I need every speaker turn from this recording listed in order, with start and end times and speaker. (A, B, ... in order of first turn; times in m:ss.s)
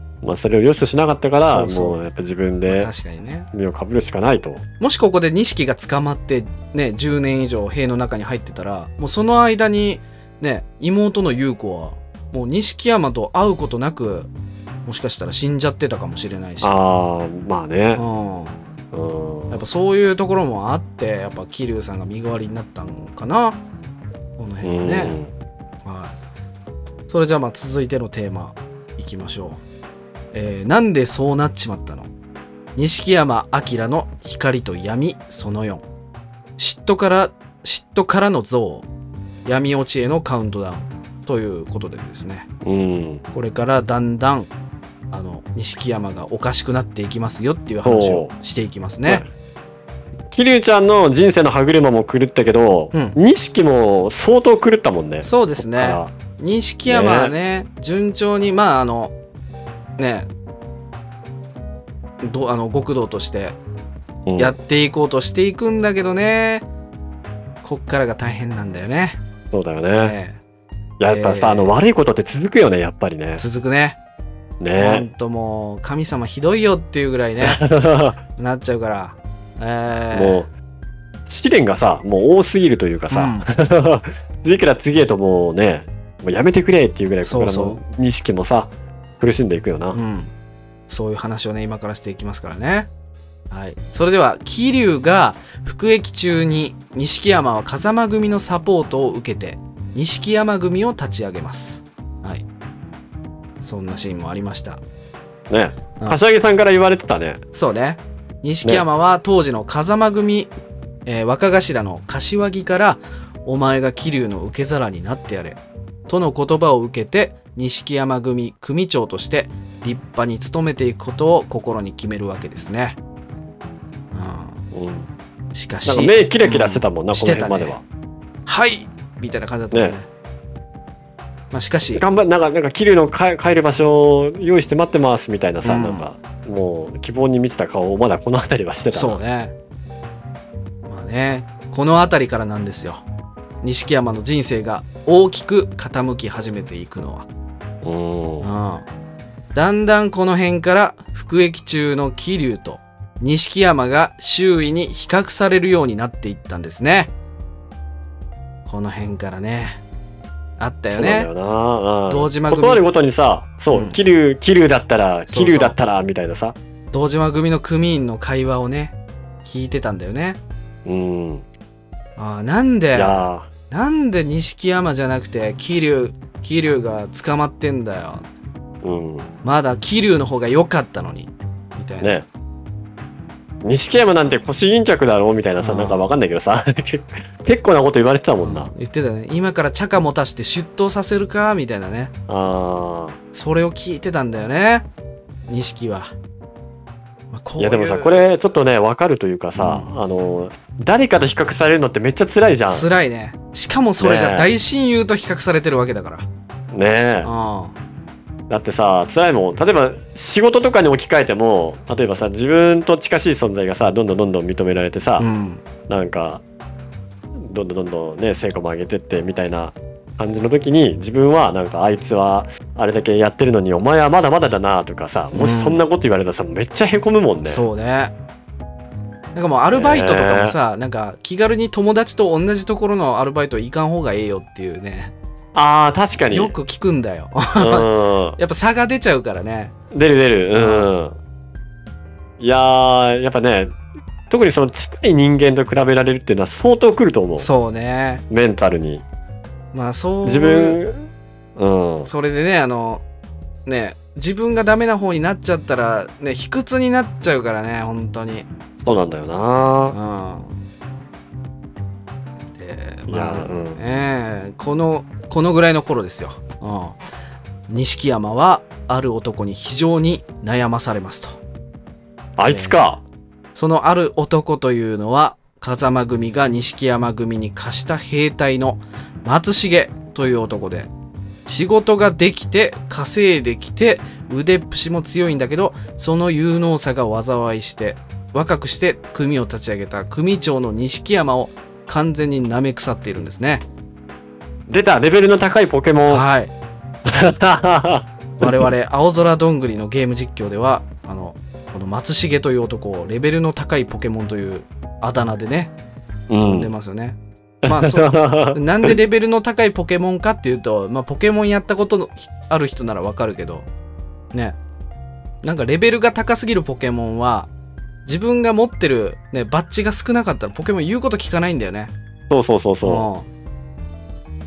0:00.2-0:02.9 A
0:01.4-0:02.0 B
0:02.6-0:03.5 B
0:03.5-0:04.6 A
0:04.8-0:14.3 B
0:14.8-0:16.8 B
0:16.6-0:18.0 A
0:18.0-0:18.6 B
0:18.9-0:19.6 A
0:19.5-0:23.6 B
0:24.4-0:25.2 B
0:24.6-0:25.3 A
0:25.8-0:26.2 B
0:27.1-0:29.6 B
0:30.3-0:32.1 B
0:32.8-0:35.8 B
0:36.6-0:38.9 B
0:39.4-0:42.5 B
0:42.6-0:43.2 A
0:43.3-0:44.5 B
0:45.1-0:49.2 B
0:47.8-0:48.3 A
0:50.3-0:56.1 A
0:55.2-0:59.1 B
0:56.9-0:57.3 A
1:00.0-1:00.3 B
1:02.2-1:03.6 B
1:04.2-1:04.6 A
1:04.4-1:06.6 B
1:07.6-1:09.2 B
1:09.5-1:10.2 A
1:09.9-1:10.4 B
1:11.0-1:13.4 A
1:11.0-1:11.8 B
1:13.4-1:14.0 B
1:14.6-1:15.1 A
1:14.8-1:17.6 B
1:17.4-1:18.2 A
1:18.4-1:20.5 B
1:20.1-1:20.5 A
1:21.2-1:30.0 A
1:23.1-1:23.4 B
1:27.2-1:27.8 B
1:29.9-1:30.3 B
1:30.9-1:32.9 B
1:33.5-1:42.4 B
1:43.6-1:44.8 B
1:45.5-1:47.4 A
1:47.5-1:50.5 B
1:51.0-2:03.0 B
2:04.1-2:04.6 B
2:04.7-2:05.1 A
2:05.5-2:07.8 B
2:05.8-2:07.8 A
2:08.4-2:10.1 B
2:11.5-2:12.0 B
2:11.9-2:19.2 A
2:15.6-2:16.1 B
2:18.9-2:19.5 B
2:20.9-2:23.0 B
2:23.6-2:27.3 B
2:27.8-2:28.5 A
2:28.4-2:28.9 B
2:29.5-2:37.1 B
2:38.6-2:39.8 B
2:40.6-2:41.3 B
2:40.9-2:46.6 A
2:42.1-2:42.8 B
2:43.7-2:44.0 B
2:45.3-2:45.8 B
2:46.9-2:50.4 B
2:50.8-2:51.5 A
2:52.2-2:58.3 B
2:52.9-2:53.5 A
2:58.8-2:59.3 A
2:59.4-3:02.1 B
3:02.0-3:02.3 A
3:03.6-3:08.7 A
3:05.6-3:06.1 B
3:08.4-3:12.1 B
3:12.3-3:13.2 A
3:13.3-3:14.9 B
3:15.5-3:16.1 B
3:17.3-3:18.2 B
3:17.6-3:22.8 A
3:19.5-3:20.0 B
3:22.7-3:26.3 B
3:24.0-3:24.5 A
3:26.7-3:27.3 A
3:27.2-3:27.8 B
3:28.5-3:35.3 A
3:35.2-3:35.6 B
3:35.9-3:36.4 A
3:37.4-3:47.6 A
3:45.3-3:45.8 B
3:47.4-3:48.1 B
3:49.3-3:55.1 B
3:49.7-3:50.6 A
3:55.5-3:56.5 A
3:56.3-3:59.7 B
3:57.6-3:58.4 A
3:59.9-4:01.2 A
4:00.5-4:00.9 B
4:02.4-4:03.8 A
4:04.3-4:07.5 A
4:07.4-4:08.2 B
4:08.3-4:09.0 A
4:09.7-4:10.8 B
4:10.2-4:12.1 A
4:12.0-4:13.0 B
4:13.6-4:18.9 B
4:18.8-4:20.0 A
4:19.9-4:20.6 B
4:22.5-4:27.0 B
4:23.1-4:23.8 A
4:27.7-4:31.4 B
4:32.4-4:33.0 A
4:32.4-4:32.8 B
4:33.5-4:40.9 B
4:41.4-4:53.6 B
4:54.7-4:56.2 A
4:56.1-4:56.5 B
4:57.0-4:58.6 A
4:58.4-5:05.7 B
5:06.3-5:06.7 A
5:06.4-5:13.7 B
5:07.6-5:08.9 A
5:15.4-5:17.5 B
5:18.0-5:21.9 B
5:22.3-5:23.1 A
5:22.8-5:23.3 B